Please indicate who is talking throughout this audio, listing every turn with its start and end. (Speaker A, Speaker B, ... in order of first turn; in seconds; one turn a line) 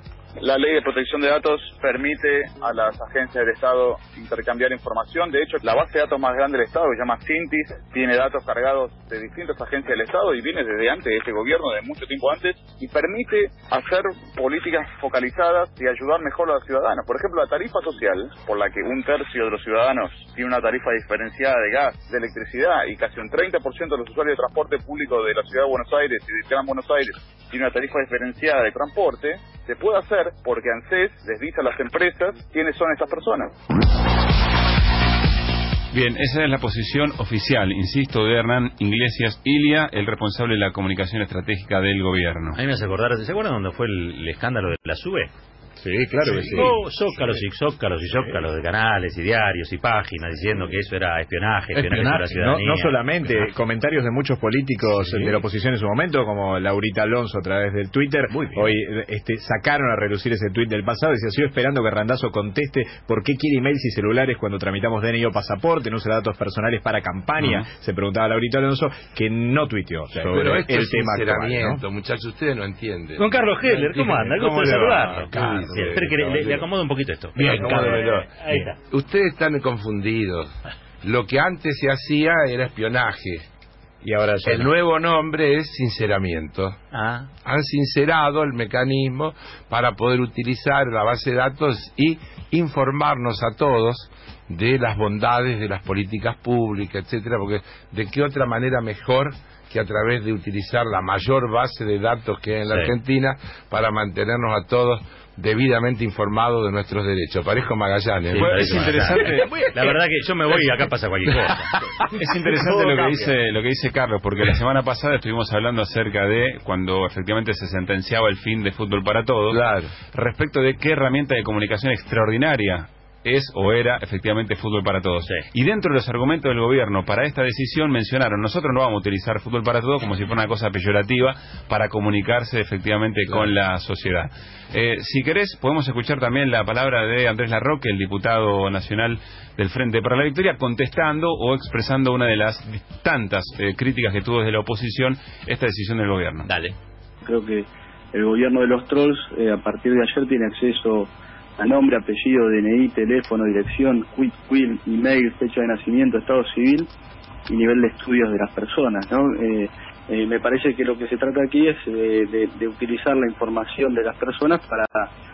Speaker A: 0.4-33.5
Speaker B: 35.9-42.6
Speaker C: 42.5-45.3
Speaker D: 45.8-46.7
Speaker C: 46.4-53.5
Speaker D: 51.7-71.8
Speaker C: 54.9-55.4
Speaker C: 58.3-58.7
Speaker B: 67.4-67.7
Speaker E: 70.2-76.7
Speaker C: 73.2-78.8
Speaker E: 77.3-78.3
Speaker E: 78.9-80.5
Speaker E: 81.0-83.4
Speaker D: 84.0-84.7
Speaker E: 84.4-86.8
Speaker C: 86.9-87.3
Speaker E: 87.4-108.9
Speaker C: 102.7-102.9
Speaker C: 108.3-111.8
Speaker B: 108.4-109.6
Speaker B: 112.1-119.6
Speaker D: 112.3-113.3
Speaker E: 119.5-119.9
Speaker B: 120.1-146.5
Speaker C: 146.4-146.7
Speaker F: 147.2-156.9
Speaker F: 157.5-165.1